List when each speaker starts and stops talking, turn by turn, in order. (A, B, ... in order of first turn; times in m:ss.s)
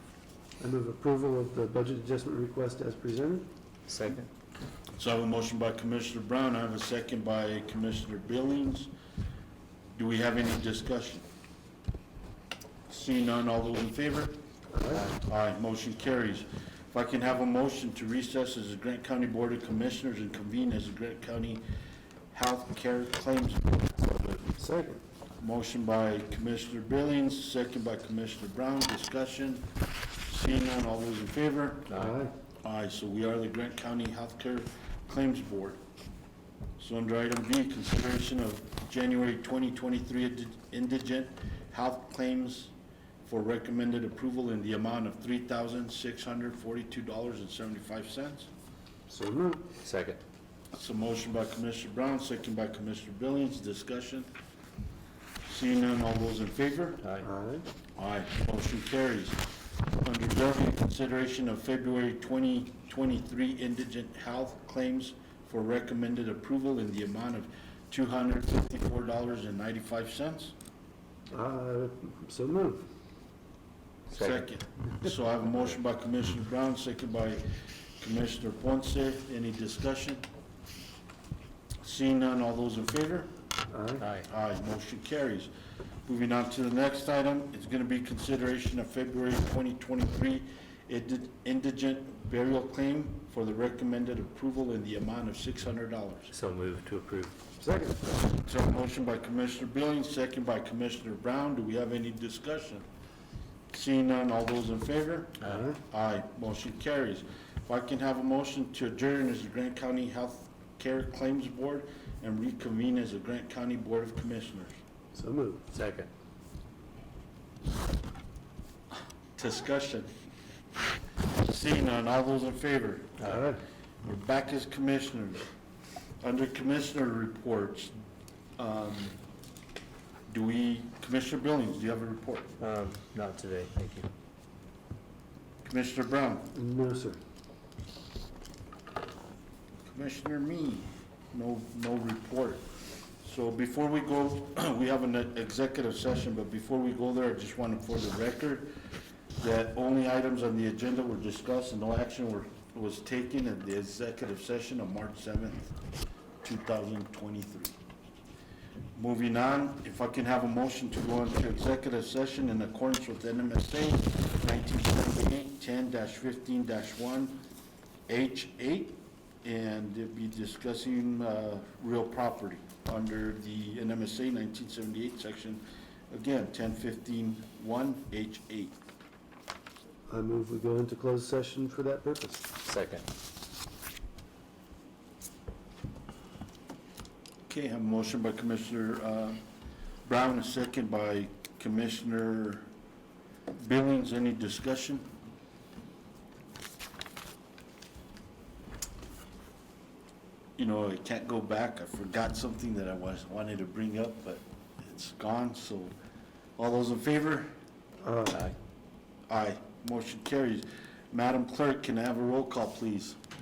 0:00.6-0:03.5 A
0:03.9-0:04.3 B
0:05.0-0:08.9 C
0:10.0-0:11.2 C
0:12.9-0:14.4 C
0:14.7-0:15.1 A
0:15.1-0:21.6 C
0:22.3-0:24.5 C
0:24.6-0:25.0 A
0:25.4-0:29.7 C
0:30.3-0:32.0 C
0:32.0-0:32.3 A
0:32.6-0:35.8 C
0:36.8-0:42.7 C
0:43.2-0:48.5 C
0:49.1-0:49.7 A
0:49.8-0:50.2 B
0:50.7-0:54.3 C
0:55.5-0:57.0 C
0:57.2-0:57.7 A
0:58.0-0:59.4 C
1:00.0-1:10.5 C
1:11.3-1:12.8 A
1:14.1-1:14.5 B
1:14.1-1:17.4 C
1:18.0-1:20.2 C
1:21.8-1:23.3 C
1:23.7-1:24.0 A
1:24.0-1:24.3 B
1:24.3-1:25.5 C
1:26.1-1:36.3 C
1:36.3-1:37.4 B
1:37.6-1:38.0 A
1:38.2-1:42.8 C
1:43.7-1:54.8 C
1:45.4-1:45.8 A
1:55.1-1:55.7 A
1:55.7-1:56.1 B
1:59.4-2:00.1 C
2:01.4-2:03.2 C
2:03.2-2:03.6 A
2:04.0-2:05.5 C
2:06.2-2:07.9 C
2:08.6-2:09.2 C
2:10.3-2:12.6 C
2:12.6-2:14.1 B
2:15.6-2:16.5 C
2:16.5-2:17.2 A
2:19.9-2:22.7 C
2:23.2-2:28.7 C
2:29.4-2:35.7 C
2:36.4-2:37.8 C
2:39.0-2:47.4 C
2:48.1-2:58.8 C
3:00.1-3:02.5 A
3:02.6-3:03.1 B
3:07.5-3:09.4 C
3:10.1-3:12.7 C
3:13.6-3:15.1 C
3:20.6-3:26.0 C
3:26.6-3:27.5 C
3:28.0-3:28.5 A
3:28.3-3:28.6 B
3:29.3-3:33.2 C